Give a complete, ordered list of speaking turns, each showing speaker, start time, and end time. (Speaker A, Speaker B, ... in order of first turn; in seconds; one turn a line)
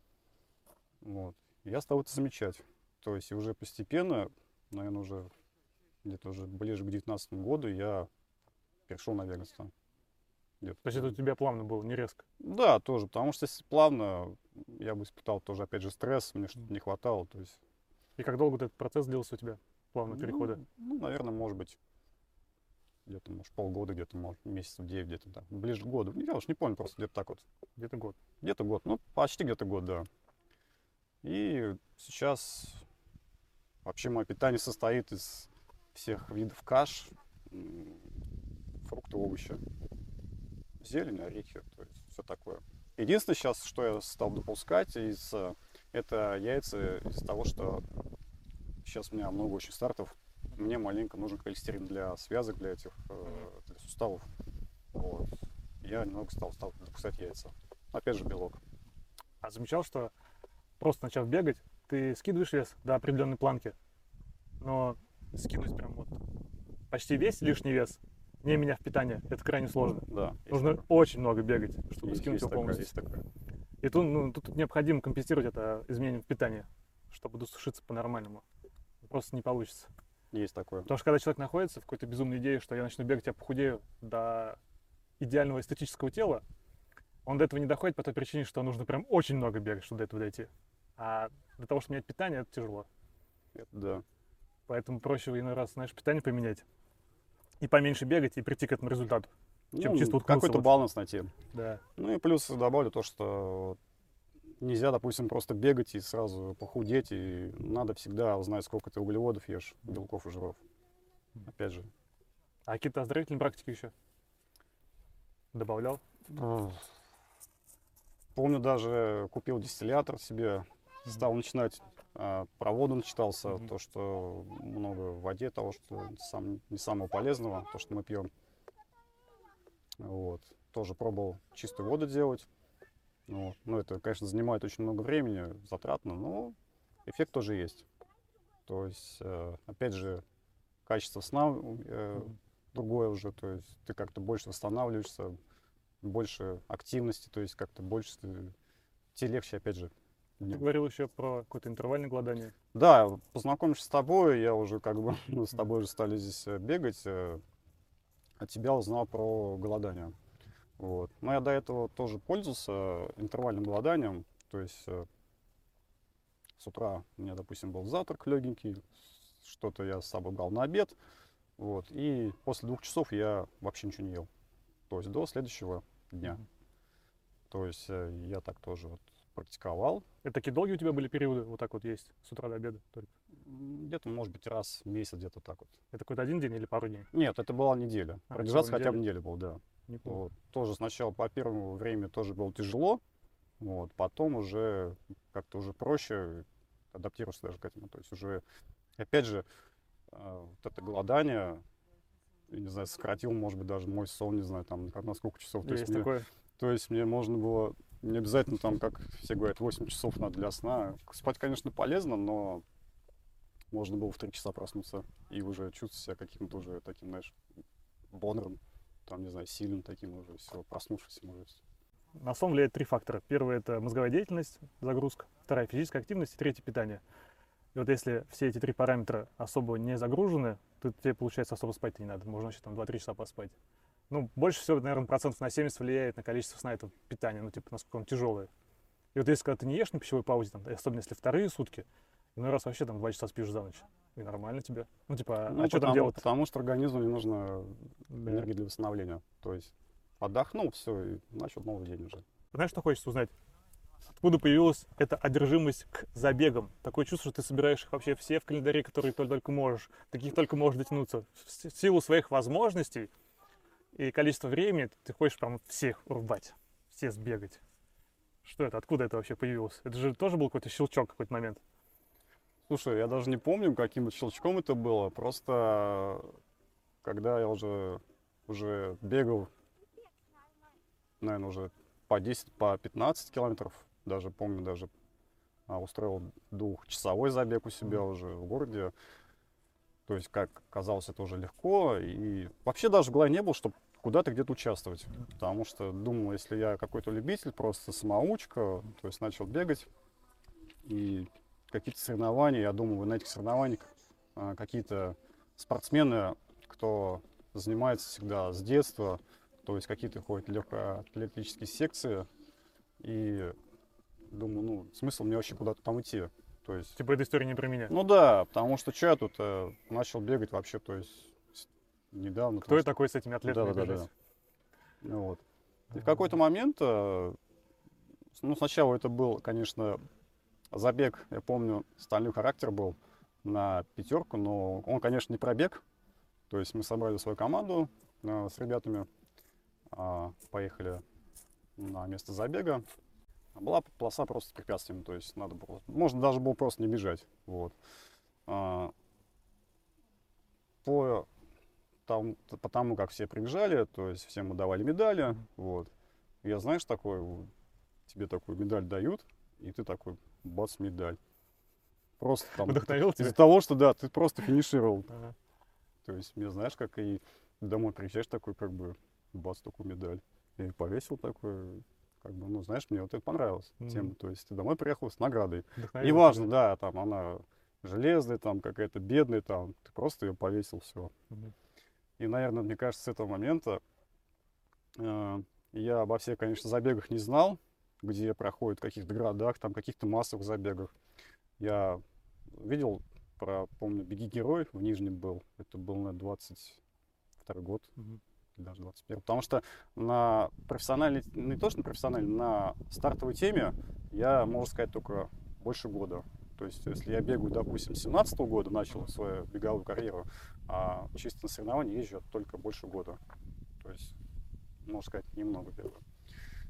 Speaker A: 1.0-5.3
Speaker A: 6.0-8.1
Speaker A: 8.9-9.7
Speaker A: 10.6-11.1
Speaker B: 10.8-12.2
Speaker A: 12.4-17.6
Speaker B: 18.2-20.6
Speaker A: 20.1-21.8
Speaker A: 23.1-27.5
Speaker B: 27.8-28.2
Speaker A: 28.4-30.1
Speaker A: 31.2-32.9
Speaker A: 33.9-38.2
Speaker A: 38.8-39.6
Speaker A: 40.8-47.9
Speaker A: 48.8-54.3
Speaker A: 54.9-55.3
Speaker A: 55.8-58.6
Speaker B: 59.4-60.1
Speaker B: 60.8-63.8
Speaker B: 64.6-66.2
Speaker B: 66.9-72.9
Speaker A: 69.8-70.8
Speaker A: 72.0-73.2
Speaker B: 73.8-78.4
Speaker B: 79.0-79.9
Speaker A: 80.3-80.9
Speaker B: 80.9-84.6
Speaker B: 85.2-86.4
Speaker B: 87.2-92.9
Speaker A: 93.5-94.0
Speaker B: 94.7-96.7
Speaker B: 97.6-100.7
Speaker A: 99.7-101.3
Speaker B: 101.5-101.8
Speaker A: 102.0-103.8
Speaker A: 104.6-110.6
Speaker A: 111.5-111.9
Speaker B: 112.7-113.9
Speaker B: 115.5-116.0
Speaker A: 116.3-116.9
Speaker A: 118.3-128.3
Speaker A: 130.0-132.5
Speaker A: 133.3-137.9
Speaker A: 138.7-140.2
Speaker A: 140.9-145.3
Speaker A: 146.0-148.6
Speaker A: 149.2-150.7
Speaker B: 150.5-152.5
Speaker A: 152.7-157.4
Speaker A: 158.4-160.2
Speaker A: 160.8-165.1
Speaker A: 166.6-171.0
Speaker A: 171.6-174.3
Speaker A: 174.9-176.4
Speaker A: 177.5-180.1
Speaker B: 180.2-183.1
Speaker A: 183.4-185.8
Speaker B: 185.9-187.1
Speaker A: 187.1-193.0
Speaker B: 188.3-189.0
Speaker B: 189.9-190.2
Speaker A: 193.6-198.4
Speaker A: 199.0-199.4
Speaker A: 200.1-201.6
Speaker A: 202.5-212.6
Speaker B: 205.6-206.3
Speaker A: 213.7-217.4
Speaker A: 218.1-221.6
Speaker B: 222.1-227.0
Speaker B: 227.8-233.6
Speaker B: 234.1-238.5
Speaker B: 239.2-246.2
Speaker A: 245.5-252.2
Speaker B: 248.1-248.5
Speaker B: 252.5-253.3
Speaker B: 254.1-263.1
Speaker B: 263.9-267.6
Speaker B: 268.4-271.6
Speaker A: 272.7-276.3
Speaker A: 277.0-279.5
Speaker A: 281.2-284.9
Speaker A: 285.7-288.9
Speaker A: 290.1-299.9
Speaker A: 300.9-312.3
Speaker A: 313.0-313.6
Speaker A: 314.3-317.0
Speaker B: 317.0-317.9
Speaker A: 317.9-322.9
Speaker B: 322.6-324.1
Speaker A: 323.4-324.1
Speaker A: 325.0-327.4
Speaker A: 328.4-330.1
Speaker A: 330.7-335.8
Speaker A: 336.5-339.1
Speaker A: 339.9-341.0
Speaker A: 341.8-342.8
Speaker A: 343.6-347.8
Speaker A: 348.5-348.9
Speaker A: 350.8-351.3
Speaker A: 352.1-355.9
Speaker A: 356.4-357.5
Speaker A: 358.1-361.2
Speaker A: 362.2-365.1
Speaker B: 362.6-363.4
Speaker A: 366.0-381.1
Speaker B: 373.8-374.1
Speaker B: 375.8-376.5
Speaker A: 382.2-383.8
Speaker A: 385.0-390.9
Speaker A: 391.6-396.8
Speaker A: 397.4-397.9
Speaker A: 398.6-413.2
Speaker A: 413.8-414.1
Speaker A: 414.8-416.0